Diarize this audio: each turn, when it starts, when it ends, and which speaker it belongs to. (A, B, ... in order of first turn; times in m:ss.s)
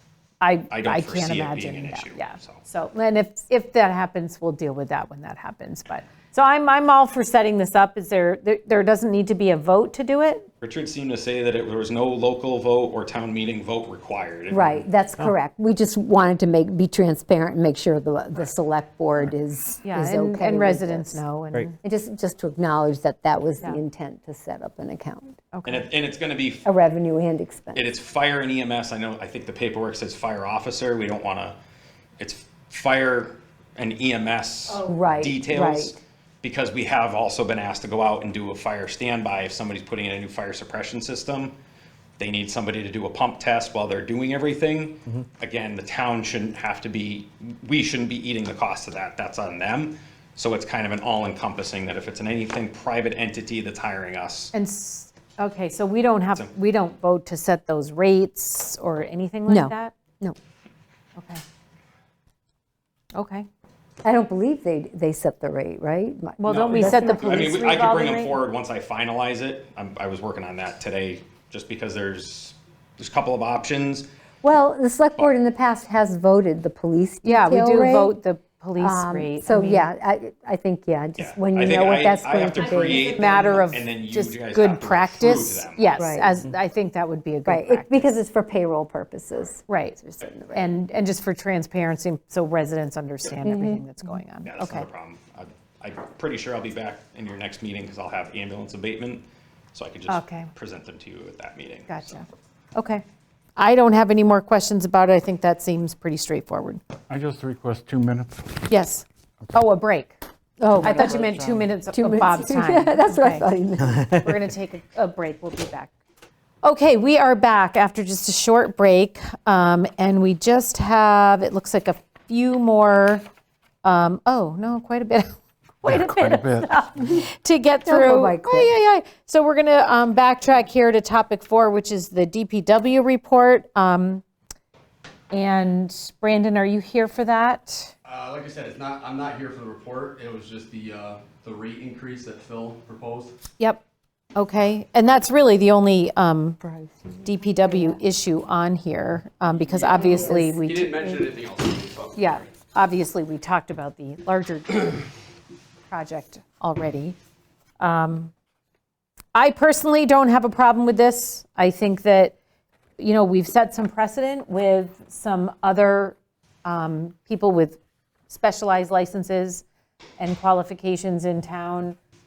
0:00.4-0:10.5 A
0:00.7-0:02.6 B
0:10.6-0:14.9 B
0:14.5-0:21.2 C
0:19.8-0:21.8 A
0:21.8-0:25.4 C
0:25.5-0:25.8 A
0:25.6-0:26.7 B
0:26.6-0:27.8 C
0:27.7-0:31.6 B
0:32.2-0:41.6 B
0:34.8-0:36.0 C
0:42.2-0:54.5 B
0:54.5-1:00.0 A
0:59.5-1:00.4 C
1:01.2-1:01.4 A
1:03.2-1:03.5 A
1:04.0-1:07.7 C
1:06.4-1:08.4 A
1:06.5-1:14.1 B
1:14.4-1:18.1 C
1:17.2-1:19.9 A
1:18.8-1:23.5 C
1:21.2-1:26.1 B
1:22.7-1:28.1 A
1:26.0-1:26.4 C
1:27.4-1:30.7 C
1:29.7-1:30.0 A
1:30.5-1:34.9 A
1:33.4-1:33.8 C
1:34.4-1:42.1 B
1:40.1-1:40.5 A
1:41.9-1:43.0 A
1:43.6-1:46.8 A
1:47.1-1:48.6 D
1:48.7-1:50.2 A
1:50.6-1:54.4 C
1:50.8-1:55.9 A
1:56.6-2:03.2 A
2:03.8-2:14.2 A
2:05.8-2:06.8 D
2:07.8-2:08.7 C
2:15.3-2:17.9 A
2:18.0-2:23.2 E
2:24.4-2:26.6 A
2:26.6-2:28.0 C
2:27.2-2:31.3 A
2:29.6-2:32.3 E
2:29.9-2:30.6 C
2:32.2-2:35.1 A
2:35.9-2:37.2 A
2:37.8-2:38.3 A
2:39.4-2:42.4 A
2:43.0-2:49.6 A
2:50.2-2:52.0 A